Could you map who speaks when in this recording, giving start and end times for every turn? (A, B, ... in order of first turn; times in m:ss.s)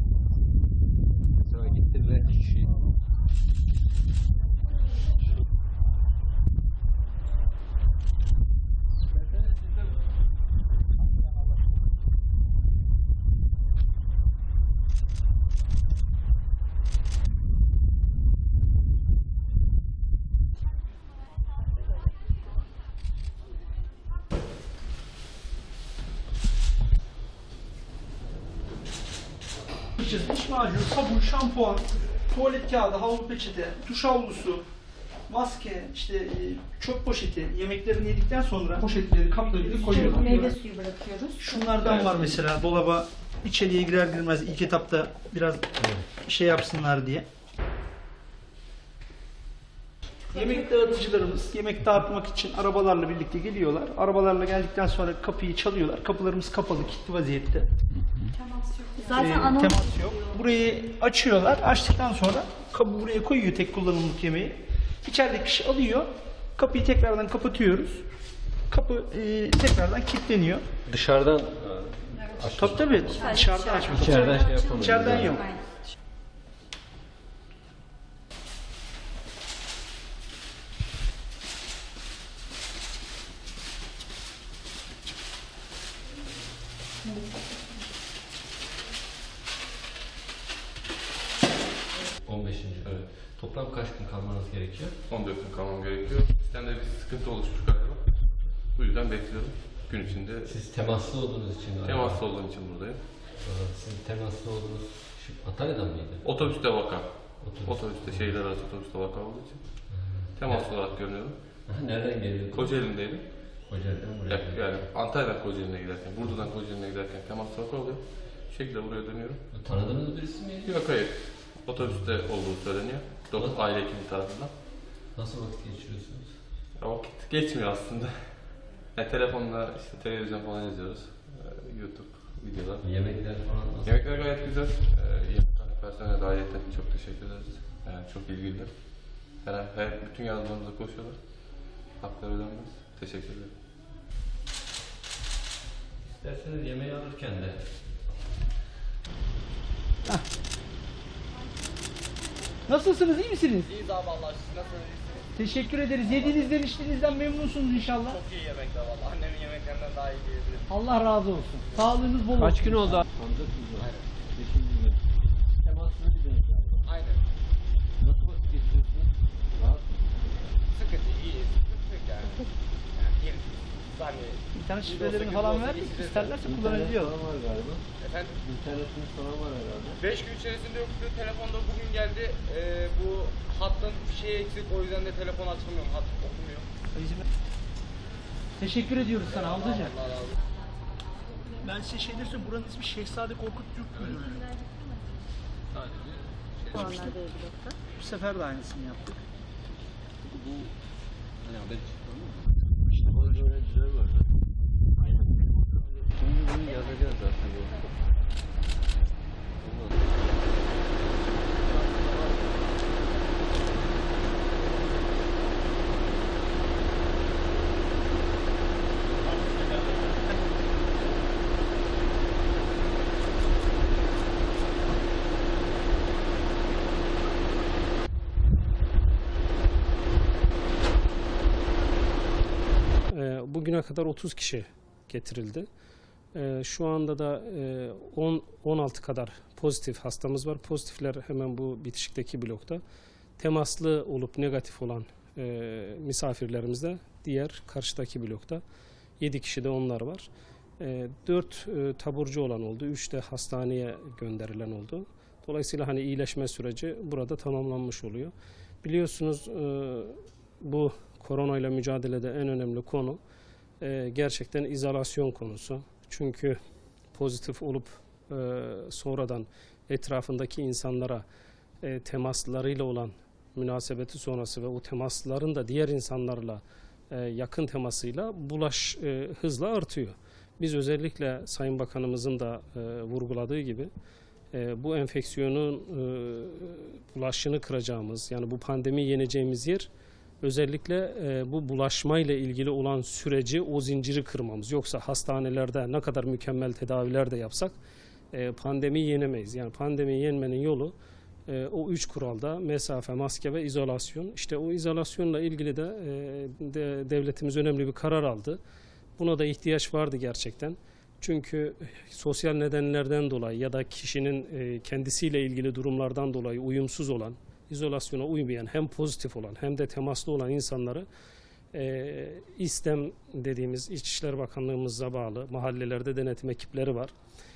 0:01.4-0:02.8 A
0:09.3-0:09.7 A
0:30.0-0:34.6 B
0:35.3-0:40.6 B
0:39.6-0:41.8 C
0:41.4-0:45.6 B
0:46.2-0:47.3 B
0:50.3-0:51.1 C
0:50.3-0:57.7 B
0:58.0-0:58.3 A
0:58.4-1:00.4 C
0:59.0-1:08.1 B
1:08.7-1:10.6 B
1:10.9-1:15.6 A
1:12.5-1:15.6 B
1:13.2-1:15.6 C
1:32.2-1:35.0 A
1:32.8-1:33.1 D
1:35.1-1:40.6 D
1:40.2-1:42.3 A
1:41.8-1:43.1 D
1:43.3-1:46.5 A
1:46.2-1:51.6 D
1:47.4-1:48.4 A
1:49.9-1:50.7 A
1:51.6-1:54.9 A
1:52.5-1:59.5 D
1:59.5-2:00.8 A
2:00.6-2:04.6 D
2:01.8-2:02.3 A
2:03.3-2:03.6 A
2:05.1-2:06.4 A
2:06.8-2:13.2 D
2:12.8-2:14.0 A
2:13.8-2:23.6 D
2:26.1-2:28.4 A
2:32.7-2:33.7 B
2:33.6-2:42.5 E
2:35.4-2:38.2 B
2:40.7-2:42.9 B
2:42.3-2:46.9 A
2:43.8-2:44.1 E
2:46.8-2:47.2 E
2:48.0-2:50.6 A
2:50.7-2:56.4 E
2:54.5-2:57.1 B
2:56.4-3:00.0 A
2:58.0-2:58.4 E
3:00.0-3:06.7 E
3:07.0-3:07.2 B
3:08.6-3:09.9 B
3:09.1-3:10.4 E
3:11.6-3:14.5 B
3:15.7-3:17.1 A
3:16.7-3:17.2 B
3:16.8-3:17.8 C
3:18.0-3:19.2 B
3:20.2-3:20.8 A
3:21.4-3:24.4 A
3:25.0-3:27.9 A
3:29.6-3:30.2 A
3:31.6-3:32.7 E
3:39.2-3:40.1 E
3:53.1-3:55.7 F
3:56.3-4:02.8 F
4:03.4-4:08.6 F
4:09.2-4:10.3 F
4:10.8-4:23.2 F
4:23.8-4:26.6 F
4:27.1-4:31.2 F
4:31.8-4:43.9 F
4:44.5-4:49.9 F
4:50.4-4:57.8 F
4:58.3-5:01.0 F
5:01.5-5:08.6 F
5:09.2-5:21.1 F
5:21.7-5:27.1 F